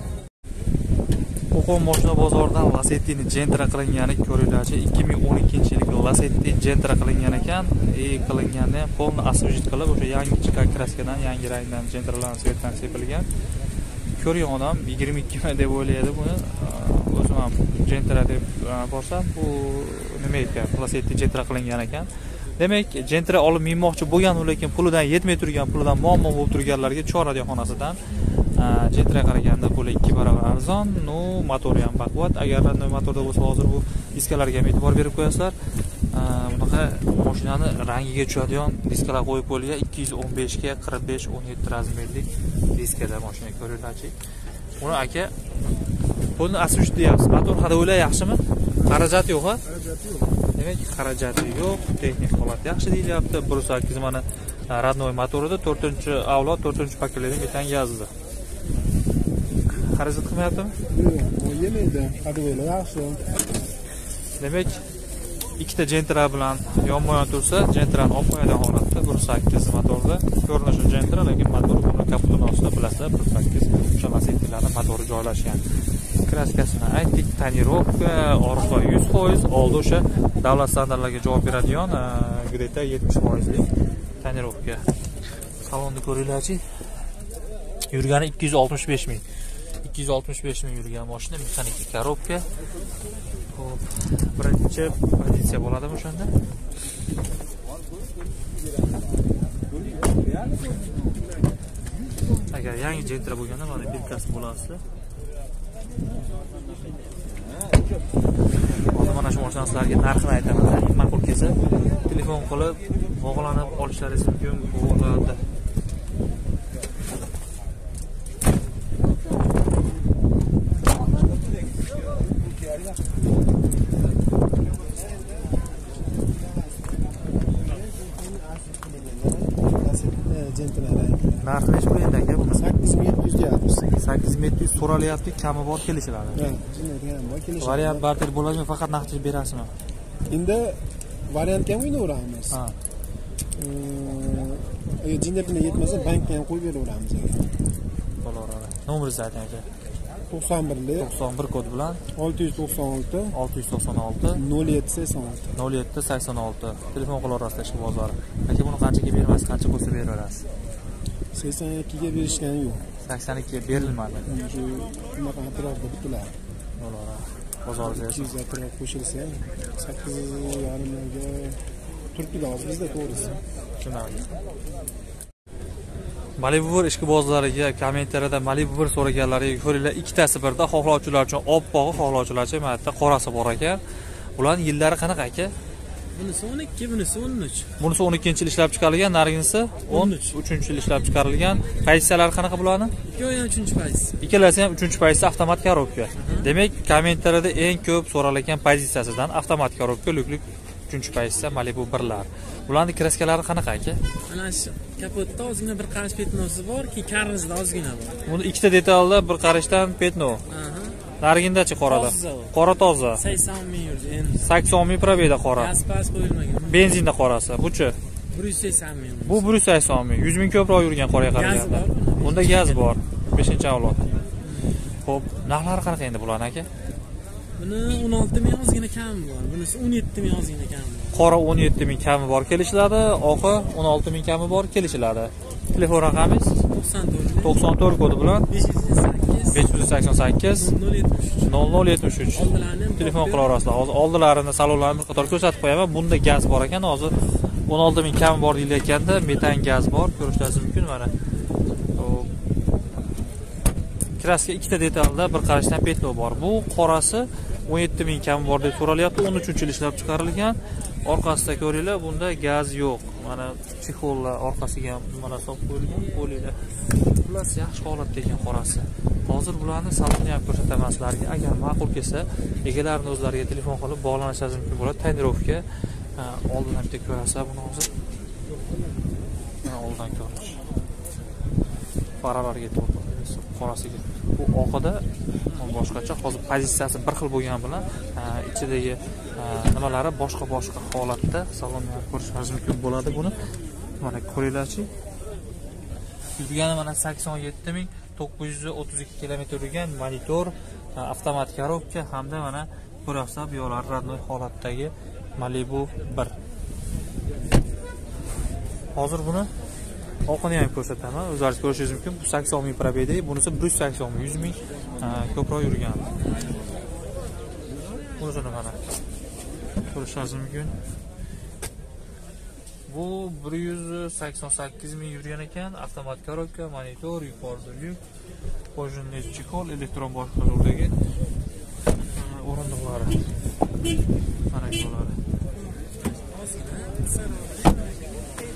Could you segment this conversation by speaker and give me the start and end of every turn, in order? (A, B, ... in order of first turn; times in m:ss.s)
0:01.5-0:13.3 A
0:14.2-0:35.5 A
0:36.1-0:44.1 A
0:44.8-0:45.3 A
0:46.4-0:49.6 A
0:49.7-0:50.2 B
0:50.5-0:58.1 A
0:59.7-1:00.8 A
1:00.9-1:03.2 B
1:04.4-1:04.8 A
1:05.6-1:15.6 A
1:16.2-1:23.7 A
1:24.2-1:24.8 A
1:25.6-1:26.6 A
1:27.9-1:29.2 A
1:29.8-1:32.5 A
1:33.5-1:36.3 A
1:42.5-1:44.8 A
1:48.9-1:55.4 A
2:07.6-2:11.5 B
2:11.4-2:12.7 A
2:12.5-2:14.0 B
2:14.0-2:16.4 A
2:16.3-2:18.1 B
2:17.6-2:19.7 A
2:20.3-2:22.6 B
2:22.5-2:22.8 A
2:23.5-2:27.5 B
2:28.2-2:29.6 A
2:30.3-2:31.1 B
2:31.0-2:32.0 A
2:32.1-2:33.4 B
2:33.3-2:34.4 A
2:34.3-2:35.5 B
2:35.5-2:40.4 A
2:41.3-2:42.9 B
2:43.0-2:44.2 A
2:43.7-2:46.3 B
2:46.8-2:48.4 A
2:47.8-2:53.4 B
2:53.8-2:54.3 A
2:56.4-3:03.8 A
3:04.4-3:05.5 A
3:06.1-3:07.7 C
3:07.8-3:12.9 A
3:09.9-3:10.4 C
3:13.1-3:14.1 C
3:14.2-3:24.0 A
3:16.2-3:16.5 C
3:24.3-3:28.2 C
3:28.2-3:30.4 A
3:30.5-3:31.0 C
3:31.2-3:33.2 A
3:31.8-3:32.5 C
3:33.1-3:34.6 C
3:34.4-3:35.7 A
3:35.5-3:36.8 C
3:36.7-3:38.0 A
3:38.3-3:39.4 C
3:39.2-3:44.0 A
3:41.3-3:42.9 C
3:44.4-3:44.8 C
3:45.0-3:46.7 A
3:47.6-3:51.2 C
3:51.1-3:56.6 A
3:56.6-3:57.6 C
3:57.4-3:58.5 A
3:58.5-3:59.7 C
3:59.5-4:00.7 A
4:00.5-4:01.5 C
4:01.4-4:07.1 A
4:02.3-4:03.6 C
4:07.7-4:11.1 A
4:12.0-4:12.3 A
4:14.2-4:26.6 A
4:27.1-4:35.6 A
4:36.2-4:37.9 A
4:39.6-4:40.6 A
4:42.2-4:53.4 A
4:54.0-4:54.9 A
4:56.4-5:06.4 A
5:08.9-5:09.5 A
5:10.2-5:16.0 A
5:18.2-5:18.8 A
5:19.9-5:20.7 A
5:22.9-5:28.0 A
5:28.7-5:30.9 A
5:32.1-5:33.2 A
5:34.5-5:35.2 A
5:36.1-5:38.0 C